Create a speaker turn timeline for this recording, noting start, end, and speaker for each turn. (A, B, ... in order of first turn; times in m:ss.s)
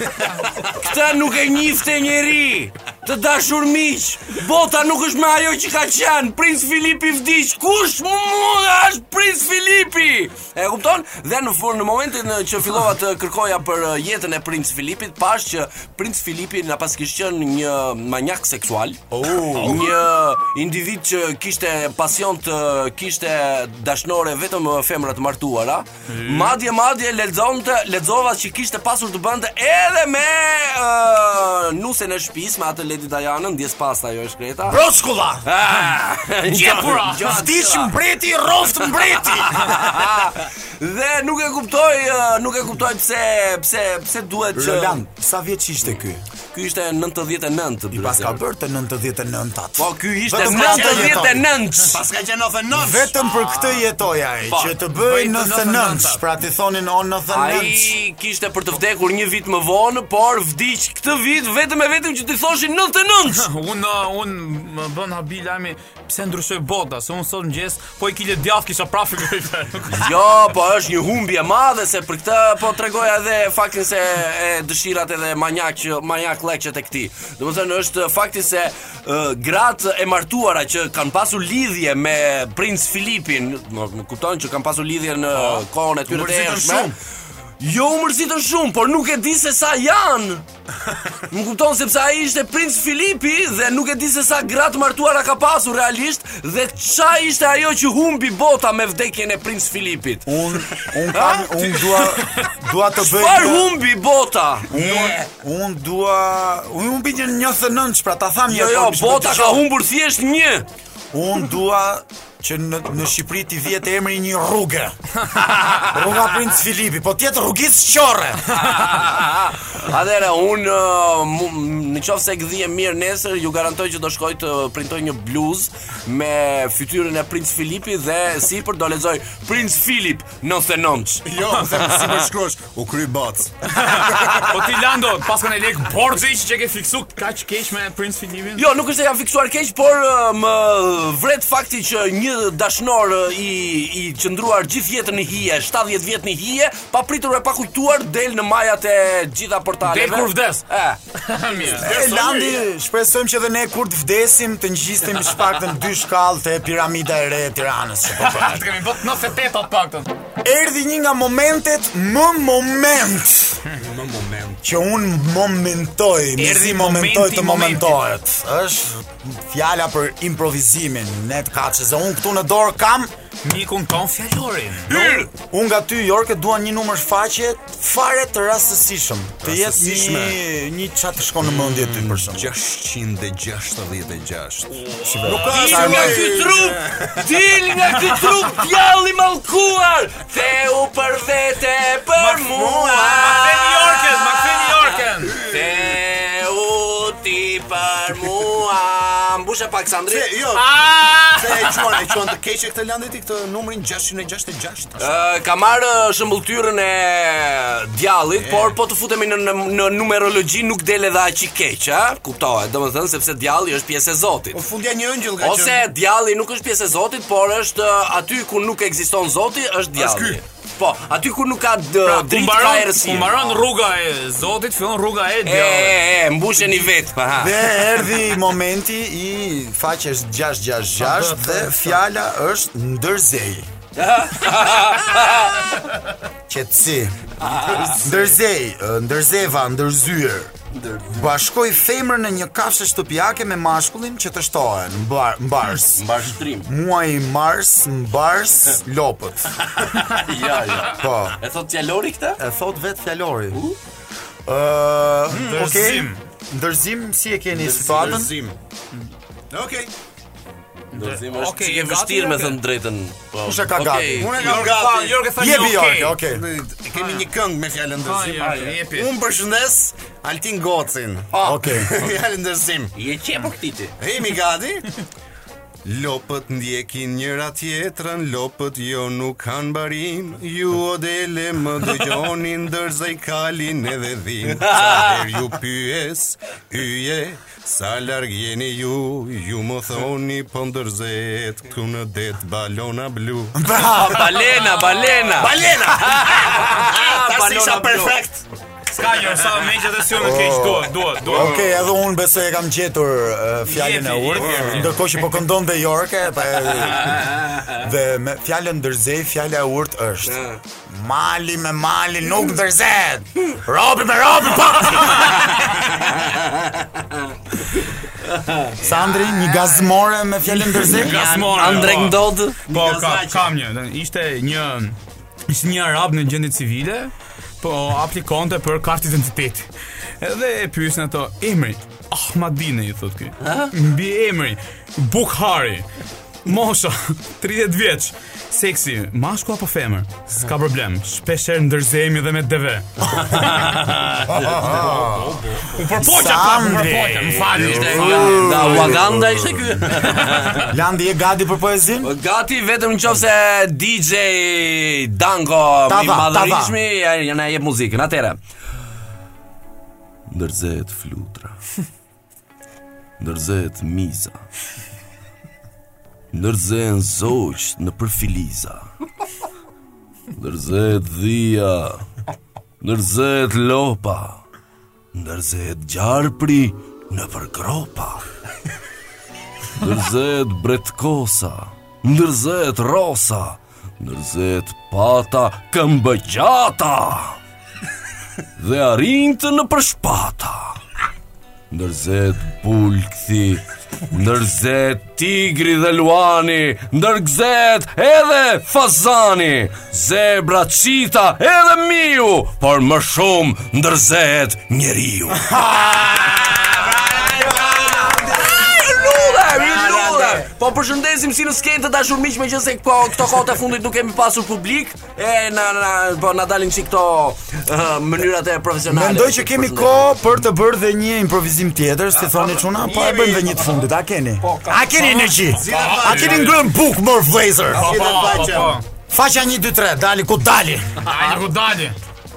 0:00.5-0:34.8 A
0:19.1-0:19.9 B
0:19.4-0:19.9 C
0:26.1-0:26.6 D
0:34.7-0:35.5 B
0:35.4-0:37.9 A
0:36.4-0:37.7 D
0:37.1-0:40.0 B
0:39.4-0:45.0 A
0:44.5-0:46.2 B
0:46.5-0:48.4 A
0:47.9-0:51.4 B
0:49.8-0:52.0 A
0:50.5-0:53.1 C
0:52.7-0:57.9 B
0:54.5-0:54.8 A
0:54.9-0:56.2 D
0:57.3-1:03.5 A
1:03.3-1:10.1 D
1:09.9-1:26.9 A
1:25.4-1:26.9 B
1:27.6-1:30.4 A
1:31.3-1:40.4 A
1:40.2-1:43.8 B
1:41.1-1:45.1 A
1:44.7-1:49.7 B
1:48.5-1:50.6 A
1:51.1-1:55.0 B
1:55.8-1:58.6 B
1:58.6-2:12.3 A
2:11.2-2:14.5 C
2:13.7-2:18.6 D
2:18.6-2:31.0 A
2:29.8-2:32.1 D
2:31.8-2:38.7 B
2:31.8-2:32.4 C
2:38.2-2:40.1 D
2:40.4-2:43.6 B
2:43.7-2:44.6 C
2:44.6-2:53.1 B
2:46.4-2:48.0 D
2:53.4-2:55.0 D
2:54.9-2:55.3 A
2:54.9-3:02.5 B
2:59.4-3:00.4 C
3:01.4-3:07.4 C
3:04.8-3:05.9 D
3:05.0-3:06.4 B
3:05.4-3:20.3 A
3:12.2-3:15.4 D
3:12.5-3:13.4 C
3:15.2-3:16.0 C
3:20.1-3:25.2 C
3:20.5-3:22.0 D
3:25.0-3:34.6 A
3:28.4-3:28.8 C
3:34.5-3:35.9 C
3:35.4-3:43.6 A
3:39.9-3:40.4 C
3:42.0-3:46.0 D
3:45.4-3:47.7 A
3:47.4-3:53.7 B
3:51.0-3:52.0 D
3:54.0-3:55.8 A
3:56.5-4:00.5 B
3:57.4-3:58.1 A
4:00.7-4:01.2 A
4:01.1-4:09.6 B
4:05.9-4:06.7 A
4:09.7-4:12.4 A
4:10.9-4:11.4 B
4:12.4-4:13.6 B
4:14.4-4:18.4 B
4:15.3-4:16.2 D
4:17.6-4:18.6 C
4:17.9-4:18.2 A
4:19.5-4:19.9 C
4:20.9-4:22.6 D
4:20.9-4:24.7 A
4:23.4-4:24.5 B
4:24.2-4:25.3 C
4:24.4-4:26.2 D
4:25.4-4:26.4 B
4:26.2-4:32.9 C
4:27.0-4:27.2 D
4:28.0-4:29.1 D
4:31.3-4:31.6 A
4:31.4-4:31.9 B
4:33.0-4:33.9 A
4:34.0-4:34.9 C
4:35.8-4:53.8 C
4:44.6-4:45.2 A
4:53.6-4:54.5 B
4:53.8-4:58.2 A
4:54.7-4:58.4 C
4:58.9-5:01.6 D
5:00.2-5:15.9 B
5:03.7-5:05.1 D
5:10.2-5:10.6 A
5:18.2-5:18.7 A
5:18.8-5:21.7 B
5:18.8-5:19.6 D
5:20.5-5:25.0 D
5:21.0-5:22.6 A
5:22.7-5:23.5 C
5:25.5-5:29.7 D
5:30.2-5:35.9 D
5:33.4-5:33.7 A
5:36.4-5:44.0 D
5:43.4-5:45.8 A
5:44.3-5:45.3 C
5:44.4-5:45.2 B
5:45.6-5:48.9 D
5:46.0-5:52.1 B
5:47.5-5:50.7 A
5:49.0-5:49.2 C
5:52.0-5:58.4 A
5:55.9-5:56.8 B
6:00.3-6:01.6 A
6:03.2-6:04.4 A
6:06.3-6:08.9 A
6:10.4-6:12.1 A
6:12.8-6:14.4 A
6:15.1-6:18.2 A
6:19.8-6:27.4 A
6:28.6-6:30.8 A
6:31.7-6:45.5 A
6:45.4-6:50.4 B
6:46.2-7:00.2 A
6:58.9-7:08.0 B
7:02.3-7:03.8 C
7:04.5-7:04.7 A
7:05.0-7:06.6 D
7:05.5-7:06.6 C
7:07.7-7:08.8 C
7:07.7-7:08.8 D
7:09.1-7:10.9 B
7:11.0-7:12.0 D